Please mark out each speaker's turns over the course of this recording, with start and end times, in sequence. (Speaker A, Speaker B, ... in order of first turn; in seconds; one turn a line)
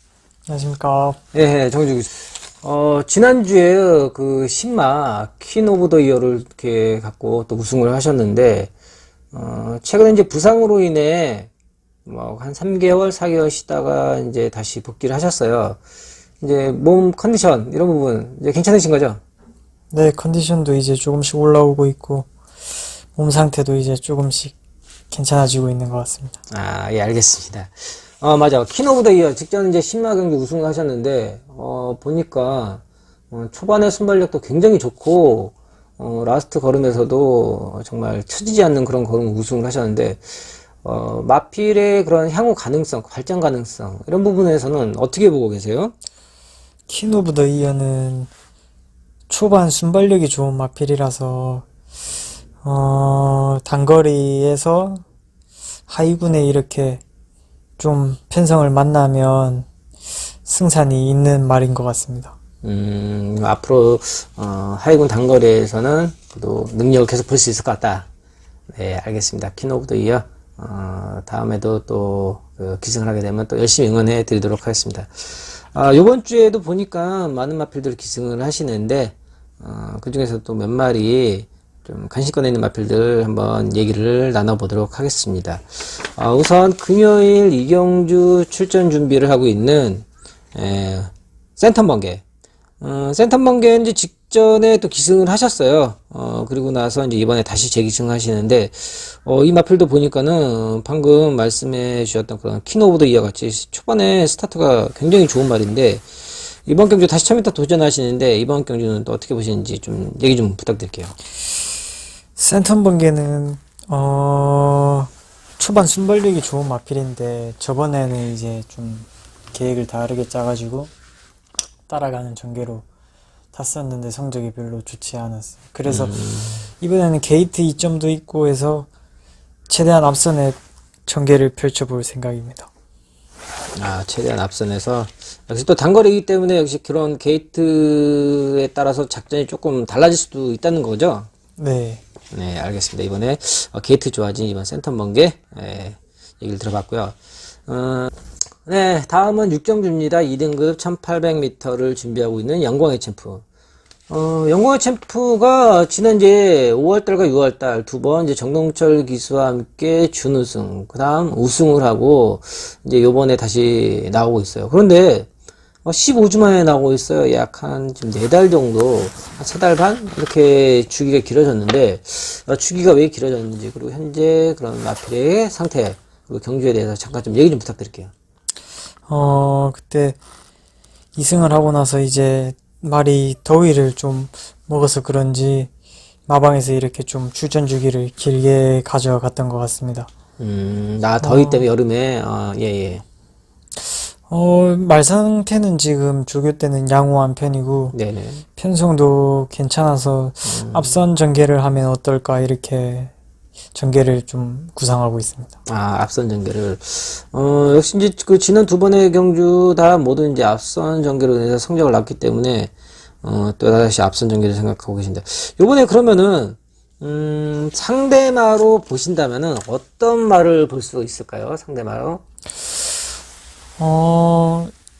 Speaker A: 0.5-1.2
Speaker B: 1.3-8.7
Speaker B: 9.3-11.5
Speaker B: 12.1-15.8
Speaker B: 16.4-19.2
Speaker A: 19.9-22.3
Speaker A: 23.1-24.6
Speaker A: 25.1-26.4
Speaker B: 26.5-45.9
Speaker A: 46.9-48.3
Speaker A: 49.3-51.6
Speaker A: 52.6-55.0
Speaker A: 55.9-57.0
Speaker A: 57.8-59.7
Speaker A: 60.5-62.3
Speaker B: 62.6-68.1
Speaker B: 68.7-92.2
Speaker B: 92.8-106.0
Speaker B: 106.6-111.1
Speaker A: 112.4-120.9
Speaker A: 121.9-122.8
Speaker A: 123.5-126.2
Speaker B: 125.9-126.7
Speaker A: 126.8-128.9
Speaker A: 129.7-132.7
Speaker B: 133.8-141.3
Speaker A: 141.6-142.0
Speaker B: 142.3-148.1
Speaker B: 148.6-153.4
Speaker B: 154.1-165.3
Speaker B: 165.8-178.1
Speaker A: 179.1-180.2
Speaker A: 181.2-185.7
Speaker A: 186.3-190.1
Speaker B: 190.4-193.0
Speaker A: 191.2-191.7
Speaker A: 194.3-198.0
Speaker B: 197.9-198.4
Speaker A: 198.6-203.1
Speaker B: 200.4-201.0
Speaker A: 203.7-205.5
Speaker B: 205.7-212.7
Speaker B: 213.2-222.2
Speaker A: 223.8-224.7